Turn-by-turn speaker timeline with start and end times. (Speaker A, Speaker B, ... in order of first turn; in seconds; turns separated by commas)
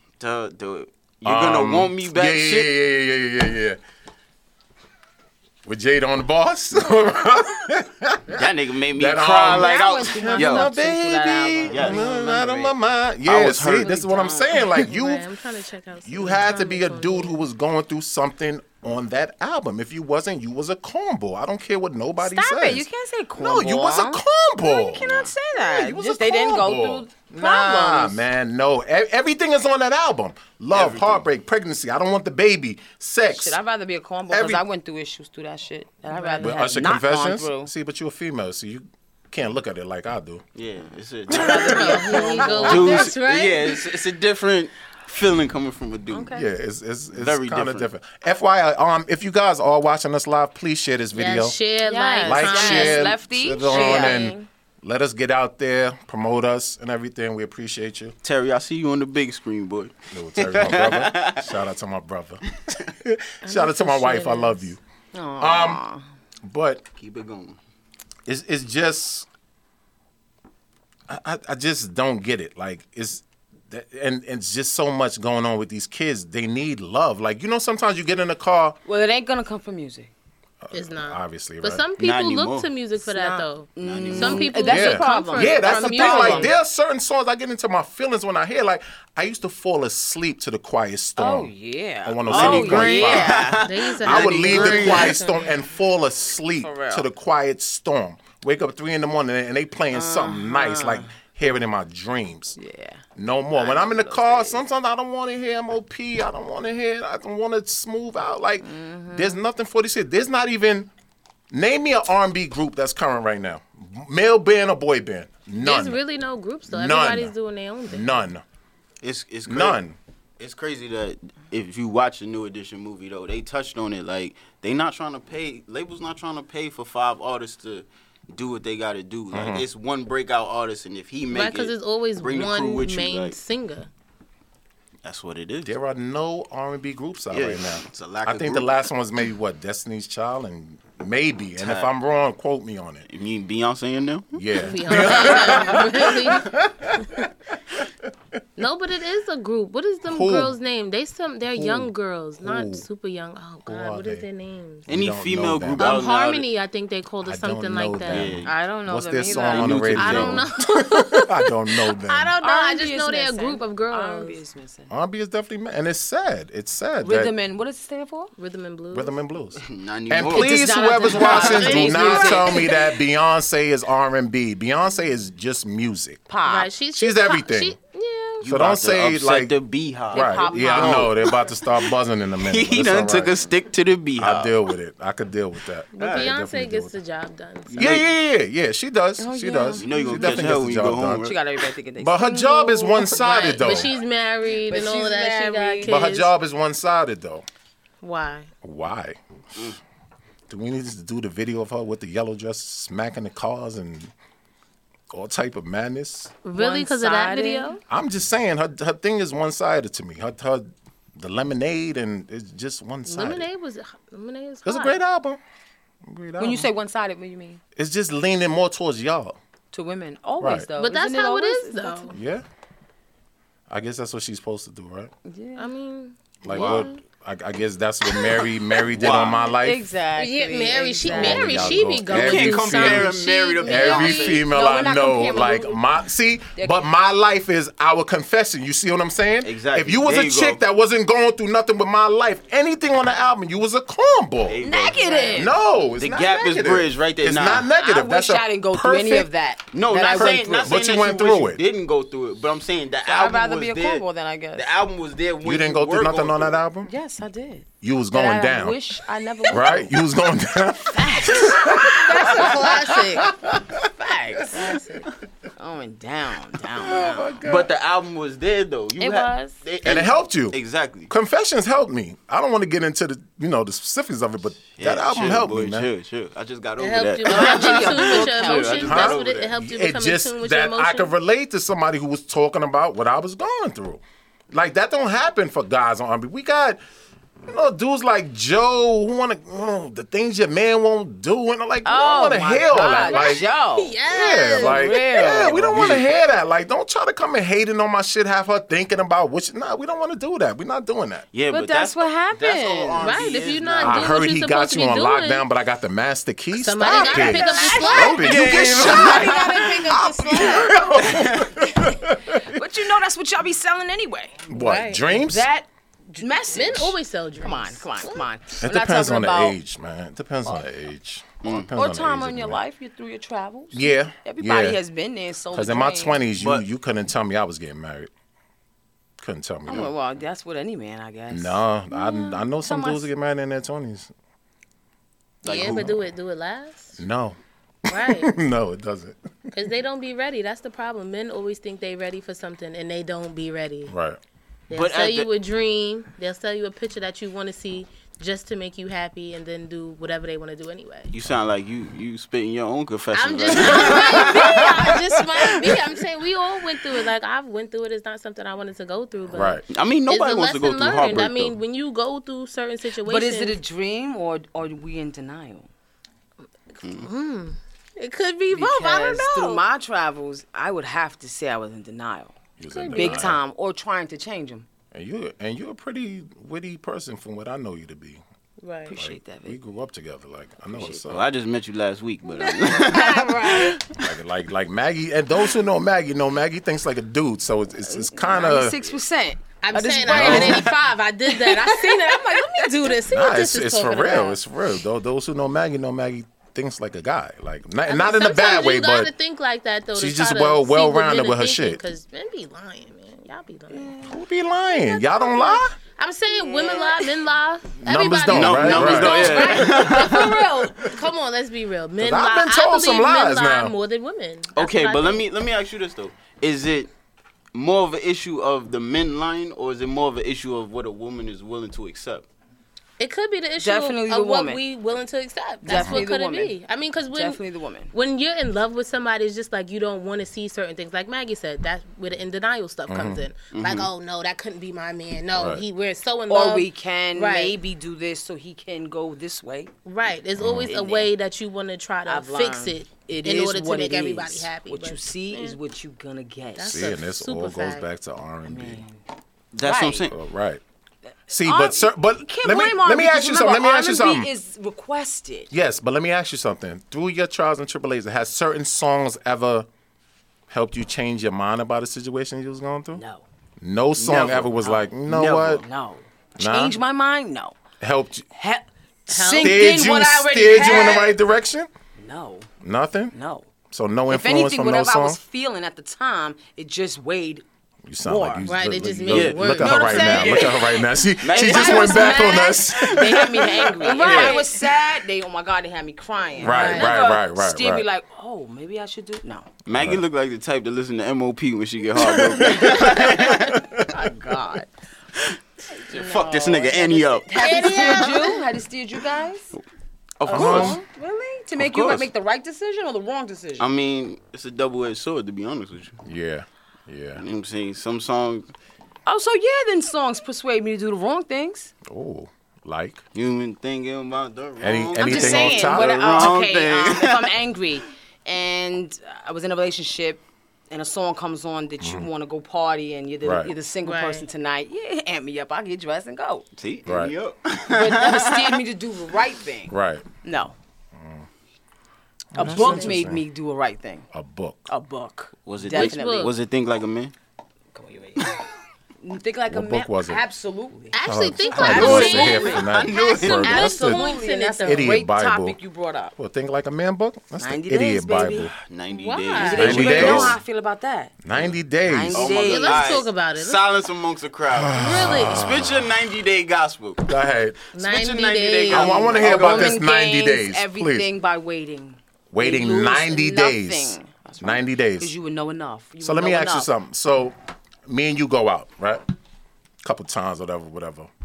Speaker A: 0.2-2.7, Speaker B: 1.2-3.8, Speaker B: 5.7-15.2, Speaker A: 8.3-10.7, Speaker C: 9.4-12.7, Speaker A: 11.6-12.1, Speaker A: 13.2-13.9, Speaker C: 13.6-14.7, Speaker D: 14.8-17.4, Speaker B: 16.1-22.9, Speaker C: 22.2-28.2, Speaker B: 23.4-33.6, Speaker A: 25.0-25.3, Speaker A: 30.7-31.3, Speaker C: 33.3-37.7, Speaker B: 34.3-34.6, Speaker D: 36.1-36.7, Speaker B: 36.4-40.4, Speaker A: 40.5-46.3, Speaker B: 41.3-41.8, Speaker C: 41.3-43.1, Speaker D: 41.5-43.8, Speaker B: 42.5-42.8, Speaker C: 46.1-46.5, Speaker B: 46.3-51.6, Speaker A: 47.1-47.9, Speaker D: 51.1-53.1, Speaker C: 51.9-54.5, Speaker B: 52.2-58.1, Speaker A: 53.7-54.0, Speaker A: 58.2-61.5, Speaker B: 60.1-64.8, Speaker D: 63.5-64.7, Speaker C: 65.1-66.0, Speaker B: 65.4-65.8, Speaker B: 66.4-66.8, Speaker A: 67.0-67.6, Speaker B: 68.2-69.3, Speaker B: 71.1-78.8, Speaker C: 78.9-80.1, Speaker B: 80.6-81.8, Speaker D: 80.7-86.5, Speaker A: 82.0-82.7, Speaker C: 83.0-86.5, Speaker A: 83.8-84.5, Speaker B: 84.7-91.5, Speaker C: 91.2-93.6, Speaker B: 92.0-93.5, Speaker A: 92.2-95.2, Speaker D: 93.6-95.6, Speaker B: 94.0-102.6, Speaker C: 96.6-97.1, Speaker C: 99.9-101.1, Speaker C: 102.6-103.0, Speaker B: 103.2-110.9, Speaker C: 103.6-104.6, Speaker C: 108.6-109.4, Speaker B: 111.5-116.0, Speaker D: 115.6-118.2, Speaker B: 116.7-117.3, Speaker B: 117.9-118.4, Speaker A: 119.0-119.8, Speaker B: 119.5-120.0, Speaker A: 120.4-133.4, Speaker B: 129.3-129.6, Speaker D: 131.3-133.9, Speaker A: 135.0-135.7, Speaker B: 135.6-143.1, Speaker A: 137.3-138.8, Speaker A: 141.6-141.9, Speaker A: 143.1-144.4, Speaker B: 144.3-147.0, Speaker D: 144.6-147.3, Speaker D: 148.6-154.9, Speaker B: 150.1-150.5, Speaker B: 151.5-151.9, Speaker B: 152.4-152.8, Speaker B: 153.7-154.2, Speaker B: 154.9-156.0, Speaker A: 154.9-156.4, Speaker D: 155.8-158.3, Speaker B: 157.2-162.3, Speaker A: 158.1-158.5, Speaker C: 158.4-160.0, Speaker A: 159.5-160.4, Speaker D: 160.0-164.4, Speaker C: 162.4-164.9, Speaker B: 164.9-167.3, Speaker C: 167.0-168.3, Speaker D: 168.4-169.2, Speaker B: 168.9-176.2, Speaker A: 169.6-170.7, Speaker C: 170.3-172.8, Speaker D: 171.1-172.9, Speaker C: 176.3-176.7, Speaker D: 176.4-178.5, Speaker B: 176.9-177.8, Speaker A: 178.4-181.5, Speaker B: 178.5-179.6, Speaker B: 180.1-183.4, Speaker C: 180.1-181.2, Speaker A: 182.4-184.6, Speaker B: 184.2-186.9, Speaker A: 186.0-186.3, Speaker D: 186.0-187.9, Speaker A: 187.7-188.1, Speaker B: 187.8-191.2, Speaker C: 189.2-190.6, Speaker A: 189.8-191.4, Speaker C: 191.1-193.9, Speaker B: 192.0-193.9, Speaker D: 192.9-196.3, Speaker C: 194.7-196.0, Speaker B: 195.8-197.5, Speaker D: 198.0-198.5, Speaker B: 198.6-199.6, Speaker B: 200.5-204.1, Speaker B: 205.1-206.4, Speaker D: 206.4-207.8, Speaker C: 206.6-207.7, Speaker B: 207.9-213.5, Speaker D: 213.1-215.0, Speaker B: 214.6-215.4, Speaker B: 216.0-216.7, Speaker C: 216.4-217.6, Speaker B: 217.8-219.4, Speaker C: 219.7-222.1, Speaker B: 220.4-220.7, Speaker D: 220.8-222.2, Speaker B: 222.1-222.4, Speaker B: 223.7-225.1, Speaker C: 225.2-225.8, Speaker D: 225.6-226.9, Speaker B: 226.4-229.9, Speaker A: 226.5-226.9, Speaker A: 228.9-229.4, Speaker C: 229.0-232.0, Speaker D: 230.2-234.4, Speaker B: 231.1-244.6, Speaker A: 232.1-234.5, Speaker C: 233.6-235.8, Speaker C: 236.6-236.8, Speaker A: 239.4-240.6, Speaker A: 244.4-247.7, Speaker C: 244.6-245.6, Speaker B: 245.3-249.3, Speaker C: 247.8-250.8, Speaker A: 249.7-256.6, Speaker B: 250.1-251.6, Speaker C: 253.1-254.7, Speaker B: 255.4-256.9, Speaker C: 256.9-260.1, Speaker B: 257.8-258.8, Speaker B: 259.5-263.7, Speaker C: 260.9-264.8, Speaker D: 262.1-263.3, Speaker D: 264.5-265.1, Speaker C: 265.6-267.4, Speaker B: 266.7-267.7, Speaker A: 267.4-271.1, Speaker C: 269.0-269.6, Speaker B: 269.8-270.6, Speaker B: 271.1-275.9, Speaker A: 274.8-279.5, Speaker D: 276.8-281.1, Speaker C: 277.2-278.9, Speaker B: 278.8-286.8, Speaker B: 287.5-293.5, Speaker C: 291.9-294.0, Speaker D: 292.8-295.3, Speaker B: 294.1-301.3, Speaker C: 294.6-295.9, Speaker A: 295.2-296.1, Speaker A: 301.3-304.1, Speaker C: 301.5-303.1, Speaker D: 303.0-305.4, Speaker B: 303.8-312.6, Speaker D: 306.6-308.4, Speaker C: 306.9-311.0, Speaker A: 307.9-309.5, Speaker D: 310.3-310.8, Speaker A: 311.0-311.5, Speaker C: 312.4-314.5, Speaker B: 314.5-315.5, Speaker D: 314.5-315.1, Speaker C: 315.1-319.6, Speaker D: 316.2-318.3, Speaker B: 318.6-322.6, Speaker A: 321.4-321.7, Speaker C: 321.7-326.2, Speaker B: 323.7-324.8, Speaker B: 325.5-328.1, Speaker A: 326.4-326.7, Speaker B: 329.2-329.9, Speaker C: 329.7-333.1, Speaker B: 331.3-334.1, Speaker D: 335.4-337.0, Speaker A: 335.4-335.9, Speaker B: 335.5-336.0, Speaker B: 337.0-339.2, Speaker D: 337.9-338.3, Speaker D: 339.5-343.9, Speaker B: 343.9-344.2, Speaker D: 344.7-351.1, Speaker A: 344.7-345.3, Speaker A: 351.1-354.9, Speaker D: 353.1-363.6, Speaker B: 359.3-359.6, Speaker A: 359.7-361.6, Speaker C: 363.1-365.7, Speaker A: 366.8-367.1, Speaker D: 366.9-369.6, Speaker C: 368.5-374.7, Speaker B: 372.6-373.4, Speaker D: 372.9-373.3, Speaker B: 374.9-378.2, Speaker D: 378.6-378.9, Speaker C: 378.9-379.6, Speaker B: 378.9-381.3, Speaker C: 380.8-381.0, Speaker A: 381.1-384.1, Speaker D: 382.4-383.8, Speaker B: 384.0-388.9, Speaker C: 387.9-393.0, Speaker D: 389.6-394.4, Speaker B: 390.1-390.7, Speaker B: 393.1-399.1, Speaker D: 397.9-403.9, Speaker B: 399.9-401.8, Speaker C: 403.7-404.2, Speaker B: 404.0-405.7, Speaker D: 404.7-415.2, Speaker C: 406.3-407.2, Speaker B: 407.8-409.8, Speaker A: 408.3-410.3, Speaker B: 412.0-413.7, Speaker A: 414.6-416.9, Speaker A: 417.5-422.3, Speaker D: 423.0-427.4, Speaker C: 423.6-424.6, Speaker C: 425.6-426.5, Speaker B: 425.7-426.1, Speaker C: 427.1-427.9, Speaker D: 427.9-437.6, Speaker B: 432.9-433.2, Speaker A: 433.5-433.9, Speaker B: 435.4-435.6, Speaker C: 436.3-439.7, Speaker D: 439.9-445.6, Speaker B: 440.4-440.7, Speaker C: 440.7-441.1, Speaker C: 442.1-446.9, Speaker D: 446.6-447.9, Speaker B: 446.7-448.8, Speaker C: 448.4-449.0, Speaker A: 449.5-450.1, Speaker C: 449.6-450.1, Speaker B: 450.1-450.6, Speaker C: 451.3-455.5, Speaker B: 451.3-454.3, Speaker B: 455.5-459.7, Speaker B: 460.5-463.0, Speaker C: 462.9-463.2, Speaker B: 463.6-465.6, Speaker A: 463.9-464.6, Speaker C: 464.6-464.9, Speaker A: 465.1-465.6, Speaker C: 465.6-467.6, Speaker B: 466.4-466.8, Speaker B: 467.8-468.3, Speaker C: 468.4-471.1, Speaker D: 469.1-469.8, Speaker B: 469.4-471.7, Speaker D: 470.6-471.0, Speaker C: 472.0-472.5, Speaker B: 472.6-473.1, Speaker C: 473.1-473.5, Speaker B: 473.7-475.2, Speaker C: 474.1-477.4, Speaker B: 477.9-484.4, Speaker C: 478.1-478.5, Speaker D: 478.5-480.5, Speaker A: 479.1-480.5, Speaker C: 479.6-489.5, Speaker A: 481.2-482.8, Speaker D: 481.6-482.7, Speaker D: 483.8-484.7, Speaker D: 486.4-487.0, Speaker B: 486.4-487.9, Speaker A: 489.7-493.6, Speaker B: 489.7-490.0, Speaker B: 491.9-493.9, Speaker C: 492.2-493.3, Speaker C: 493.9-494.7, Speaker C: 495.7-499.5, Speaker A: 495.9-498.1, Speaker D: 497.4-498.4, Speaker A: 500.2-500.8, Speaker B: 500.3-500.8, Speaker C: 500.3-503.7, Speaker A: 501.6-502.1, Speaker B: 501.7-502.0, Speaker A: 503.6-506.0, Speaker B: 506.0-507.2, Speaker A: 507.2-508.5, Speaker C: 509.1-511.7, Speaker B: 511.9-513.0, Speaker A: 513.1-517.3, Speaker B: 514.6-516.4, Speaker C: 515.0-526.5, Speaker B: 521.8-522.1, Speaker B: 523.2-523.5, Speaker D: 523.8-524.3, Speaker A: 526.6-528.6, Speaker B: 526.9-527.1, Speaker C: 527.7-530.6, Speaker B: 529.7-530.0, Speaker B: 531.0-531.3, Speaker B: 532.3-533.2, Speaker C: 532.4-534.1, Speaker D: 532.4-532.9, Speaker B: 534.1-534.7, Speaker C: 534.7-536.4, Speaker A: 535.4-537.1, Speaker D: 535.7-536.4, Speaker C: 537.7-538.4, Speaker C: 539.0-542.6, Speaker B: 539.5-540.2, Speaker D: 540.9-545.0, Speaker B: 541.0-544.0, Speaker A: 541.6-543.5, Speaker C: 543.4-546.1, Speaker B: 544.6-545.6, Speaker B: 546.2-548.5, Speaker C: 547.4-548.5, Speaker A: 548.6-550.4, Speaker D: 548.9-549.8, Speaker C: 549.4-551.2, Speaker B: 549.6-550.4, Speaker B: 551.2-552.4, Speaker C: 551.8-553.0, Speaker A: 552.1-557.1, Speaker D: 552.3-553.6, Speaker B: 554.5-555.9, Speaker D: 554.8-555.4, Speaker B: 557.0-557.6, Speaker D: 557.7-559.4, Speaker A: 557.8-559.8, Speaker B: 558.7-561.1, Speaker C: 558.9-566.7, Speaker B: 562.3-565.1, Speaker B: 566.0-569.0, Speaker B: 569.8-571.1